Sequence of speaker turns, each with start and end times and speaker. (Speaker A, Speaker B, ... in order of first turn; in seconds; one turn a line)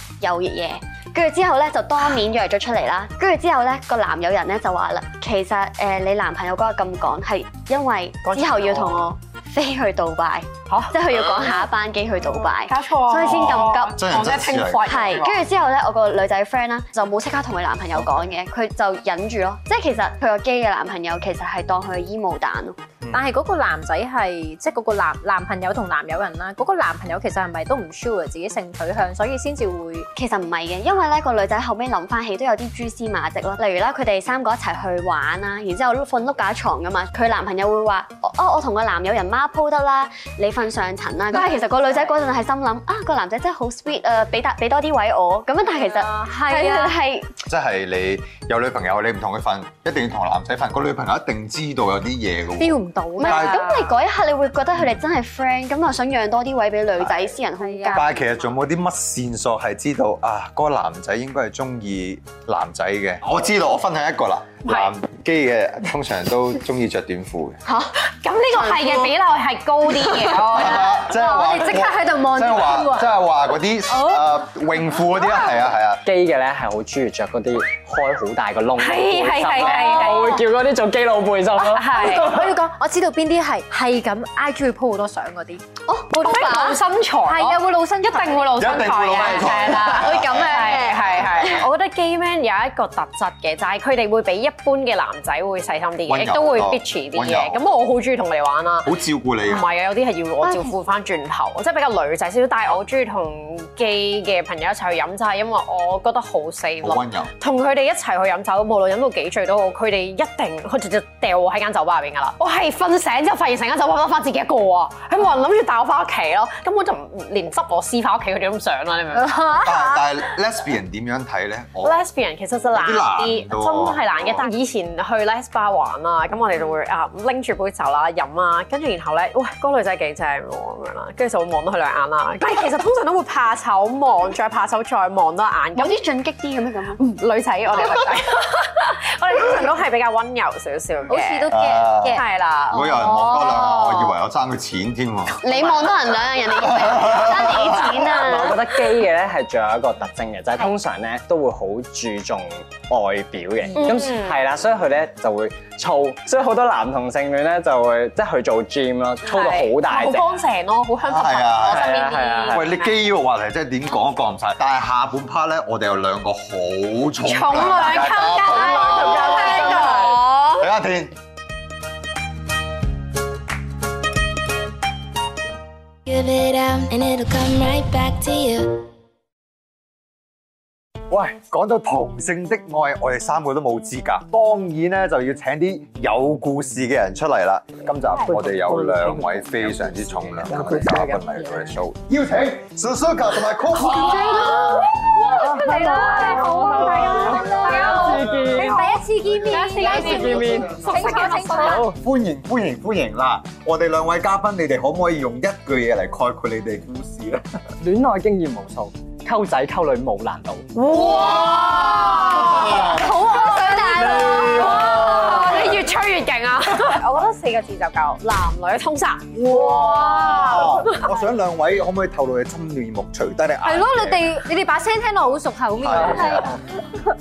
Speaker A: 0.2-14.0
Speaker B: 8.2-9.1
Speaker B: 10.7-11.7
Speaker B: 12.4-15.4
Speaker C: 13.2-15.2
Speaker A: 14.8-22.8
Speaker D: 23.1-30.1
Speaker A: 30.1-47.3
Speaker D: 45.7-47.0
Speaker C: 47.5-53.6
Speaker D: 52.6-53.9
Speaker A: 53.2-58.2
Speaker D: 57.6-58.2
Speaker C: 57.9-67.6
Speaker B: 68.0-70.9
Speaker A: 68.6-69.0
Speaker C: 70.5-76.0
Speaker D: 70.7-73.1
Speaker D: 73.9-74.2
Speaker E: 76.0-82.5
Speaker B: 78.8-80.4
Speaker D: 79.6-80.4
Speaker D: 81.6-85.6
Speaker B: 81.7-82.3
Speaker A: 85.8-86.8
Speaker B: 86.2-98.9
Speaker D: 87.2-88.6
Speaker C: 88.5-90.5
Speaker A: 90.0-91.1
Speaker C: 96.1-97.6
Speaker C: 98.8-99.7
Speaker B: 99.4-119.7
Speaker A: 100.4-100.7
Speaker C: 106.8-107.3
Speaker D: 119.1-120.0
Speaker C: 119.6-122.0
Speaker B: 121.8-136.0
Speaker C: 122.7-124.5
Speaker A: 135.7-137.0
Speaker B: 137.0-141.5
Speaker D: 141.1-142.2
Speaker C: 141.5-145.4
Speaker B: 142.1-143.1
Speaker A: 142.9-144.1
Speaker A: 145.4-148.6
Speaker B: 145.5-145.9
Speaker C: 146.5-148.1
Speaker E: 147.9-160.4
Speaker B: 153.7-154.4
Speaker B: 159.2-162.9
Speaker C: 161.1-161.9
Speaker E: 161.6-162.7
Speaker C: 162.5-171.2
Speaker B: 167.2-170.6
Speaker A: 168.8-169.8
Speaker F: 176.1-178.9
Speaker C: 181.1-194.7
Speaker B: 193.8-201.9
Speaker A: 193.9-194.8
Speaker D: 195.3-201.8
Speaker E: 195.4-198.9
Speaker E: 199.8-200.9
Speaker E: 201.5-202.0
Speaker C: 202.0-207.4
Speaker E: 207.8-210.7
Speaker B: 210.7-221.1
Speaker C: 210.9-213.1
Speaker A: 213.1-214.6
Speaker D: 213.3-214.1
Speaker C: 214.0-215.7
Speaker C: 219.3-224.3
Speaker D: 223.6-226.6
Speaker C: 225.8-226.5
Speaker E: 225.9-226.4